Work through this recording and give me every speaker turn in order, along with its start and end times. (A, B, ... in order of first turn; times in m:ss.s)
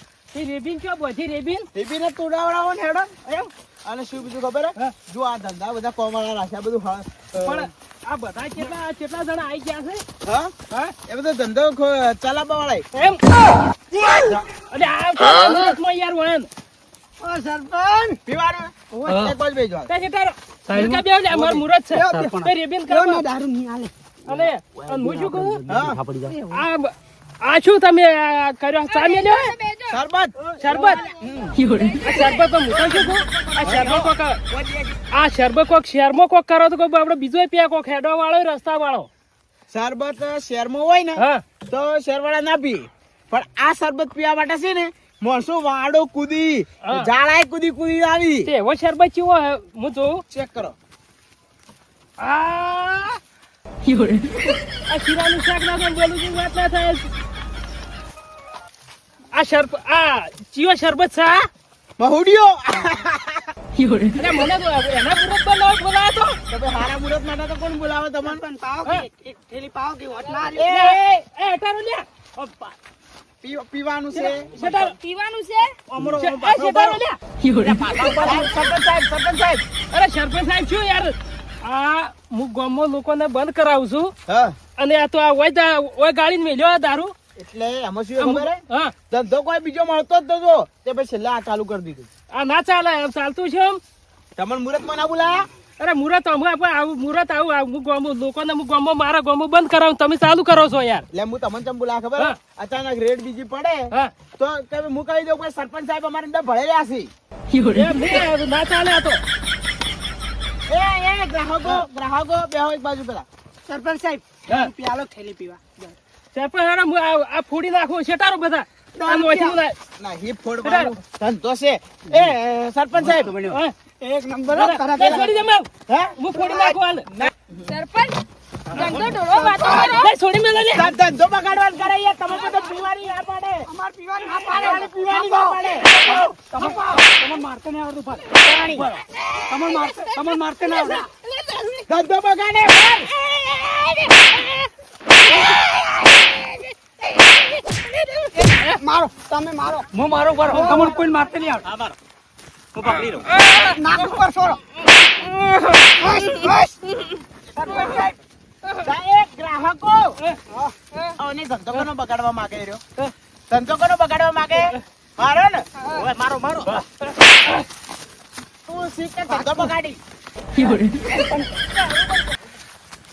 0:00.3-0:01.7 A
0:01.7-0:03.1 B
0:03.3-0:03.5 A
0:03.8-0:07.7 B
0:07.4-0:10.0 A
0:10.2-0:10.5 B
0:11.0-0:12.8 B
0:12.9-0:13.2 A
0:14.7-0:16.5 A
0:17.2-0:18.2 C
0:18.3-0:19.9 B
0:19.0-0:19.3 A
0:19.9-0:23.2 A
0:20.7-0:22.5 D
0:21.9-0:23.9 C
0:24.3-0:25.6 A
0:24.4-0:26.5 D
0:25.7-0:26.0 B
0:26.4-0:26.9 A
0:27.4-0:29.5 A
0:28.9-0:30.0 E
0:29.9-0:31.0 B
0:30.6-0:31.0 A
0:30.8-0:31.1 E
0:31.3-0:31.6 D
0:31.7-0:32.4 E
0:32.0-0:34.4 A
0:32.7-0:35.0 B
0:35.1-0:39.1 A
0:39.7-0:48.5 B
0:41.2-0:41.4 A
0:48.4-0:50.2 A
0:50.3-0:50.8 B
0:52.2-0:53.2 A
0:54.9-0:57.1 A
0:59.3-1:01.5 A
1:02.0-1:03.5 B
1:04.2-1:06.4 A
1:06.5-1:08.4 B
1:08.2-1:10.7 C
1:10.6-1:11.2 B
1:10.7-1:12.7 A
1:13.4-1:14.5 B
1:14.1-1:15.0 A
1:14.9-1:15.8 E
1:16.0-1:17.0 B
1:16.2-1:17.2 A
1:17.6-1:19.6 B
1:19.9-1:24.1 A
1:24.3-1:24.6 B
1:24.8-1:27.1 A
1:27.4-1:28.6 B
1:28.2-1:28.9 A
1:29.1-1:32.1 B
1:32.3-1:33.8 A
1:34.4-1:35.4 B
1:35.8-1:41.1 A
1:41.1-1:47.1 B
1:47.6-1:49.2 A
1:50.7-1:53.3 B
1:53.7-1:55.9 C
1:56.3-1:59.8 A
1:59.0-1:59.6 C
2:00.0-2:03.3 B
2:00.6-2:00.9 A
2:03.0-2:03.6 D
2:03.5-2:03.7 A
2:04.0-2:05.4 C
2:04.5-2:07.1 A
2:05.0-2:05.3 B
2:05.9-2:07.6 B
2:07.7-2:08.2 E
2:08.7-2:09.0 A
2:08.7-2:10.0 C
2:08.8-2:10.1 E
2:09.8-2:10.9 A
2:10.7-2:13.6 B
2:13.7-2:17.1 C
2:14.5-2:15.9 B
2:16.4-2:19.0 D
2:18.4-2:18.9 B
2:19.5-2:21.1 D
2:19.6-2:21.1 C
2:21.9-2:23.1 B
2:28.3-2:29.9 C
2:29.9-2:31.6 D
2:30.5-2:31.0 B
2:31.6-2:32.0 B
2:32.8-2:33.3 B
2:32.8-2:33.8 A
2:33.7-2:34.6 C
2:35.1-2:35.7 A
2:36.0-2:36.8 C
2:37.5-2:38.2 C
2:38.8-2:40.2 B
2:40.5-2:40.8 C
2:40.9-2:41.2 E
2:41.2-2:42.8 B
2:43.5-2:46.7 B
2:48.7-2:50.0 B
2:49.3-2:49.7 C
2:50.6-2:51.5 C
2:51.7-2:52.3 A